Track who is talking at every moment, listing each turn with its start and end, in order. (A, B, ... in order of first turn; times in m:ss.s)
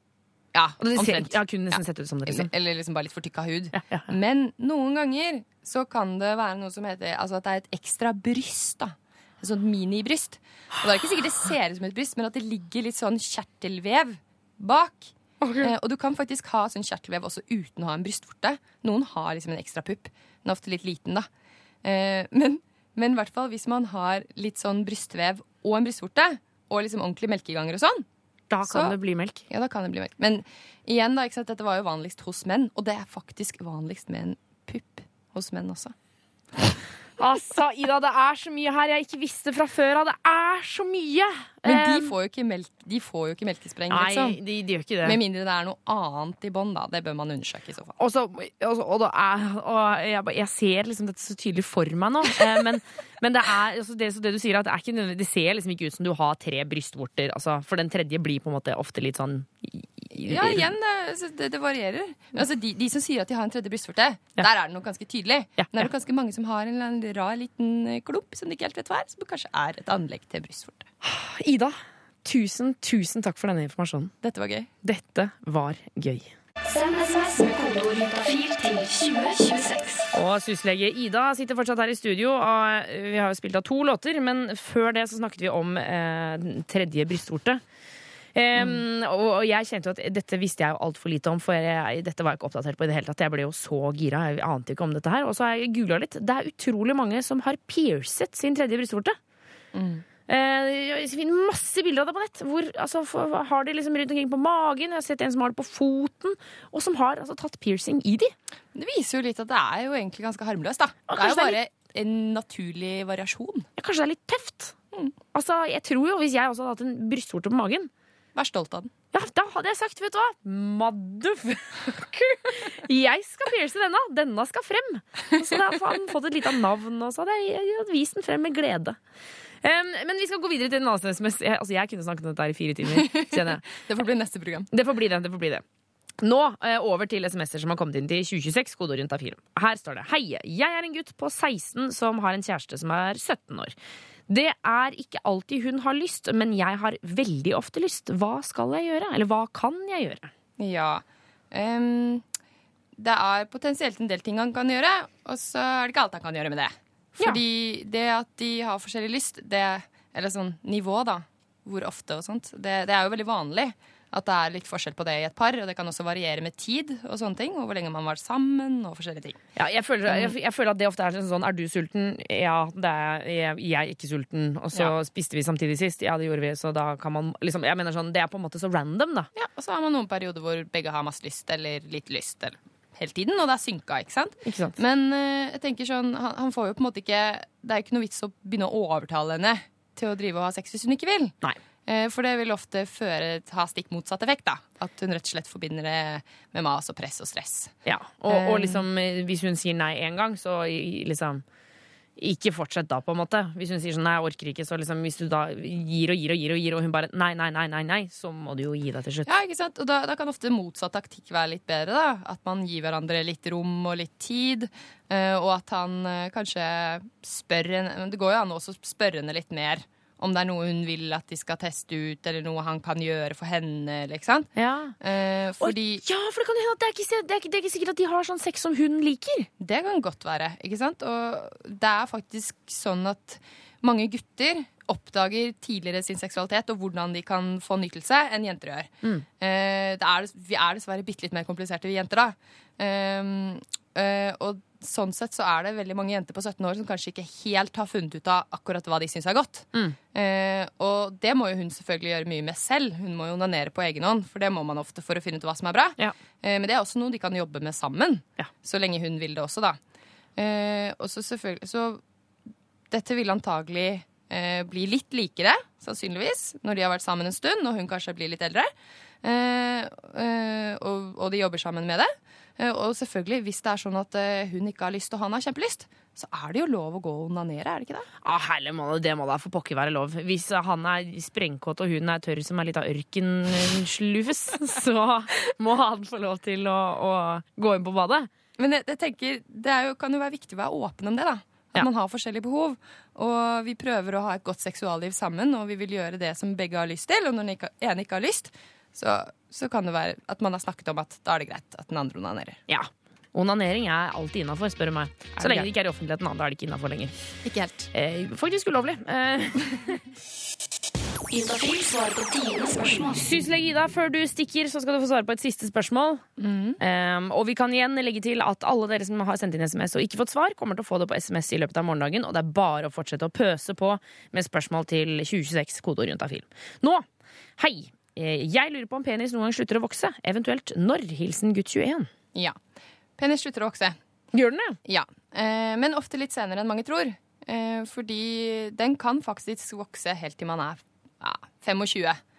0:00.5-0:21.3 A
0:00.8-0:02.5 B
0:03.7-0:04.1 B
0:15.4-0:15.7 B
0:21.8-0:28.0 A
0:28.5-0:29.4 B
0:28.7-0:29.0 A
0:29.5-0:35.9 A
0:37.2-0:42.1 B
0:41.6-0:44.4 A
0:43.9-0:45.2 B
0:45.0-0:48.0 A
0:48.0-1:00.7 B
1:00.2-1:10.9 A
1:05.6-1:05.9 B
1:11.0-1:14.1 B
1:14.2-1:14.7 A
1:14.8-1:16.3 B
1:16.6-1:20.1 C
1:20.1-1:27.6 B
1:28.3-1:39.2 B
1:28.6-1:28.8 A
1:39.7-1:40.0 A
1:40.3-1:48.3 B
1:48.7-1:53.7 A
1:51.1-1:51.6 B
1:53.8-1:54.7 B
1:55.3-1:57.9 B
1:58.3-1:58.9 A
1:59.1-2:09.0 B
2:09.6-2:13.7 B
2:12.9-2:14.7 A
2:14.7-2:15.6 B
2:16.2-2:23.7 B
2:24.3-2:30.3 B
2:30.6-2:32.2 A
2:33.0-2:49.4 A
2:49.6-2:59.3 B
2:50.1-2:50.3 A
2:59.3-3:17.7 A
3:04.4-3:04.8 B
3:17.8-3:21.4 B
3:18.3-3:18.8 A
3:22.2-3:29.3 B
3:29.2-3:46.0 A
3:44.6-3:44.9 B
3:45.6-3:49.5 B
3:49.6-4:19.8 A
4:20.4-4:22.0 A
4:22.9-4:28.7 A
4:29.2-4:38.1 A
4:38.2-4:48.3 B
4:48.6-5:02.6 A
5:02.7-5:07.1 B
5:05.4-5:05.7 A
5:07.4-5:07.9 A
5:07.9-5:09.9 B
5:11.3-5:13.2 C
5:13.1-5:16.2 B
5:16.4-5:16.8 A
5:16.8-5:27.0 B
5:27.6-5:32.1 B
5:33.2-5:34.0 A
5:34.3-5:34.8 B
5:34.8-5:42.2 A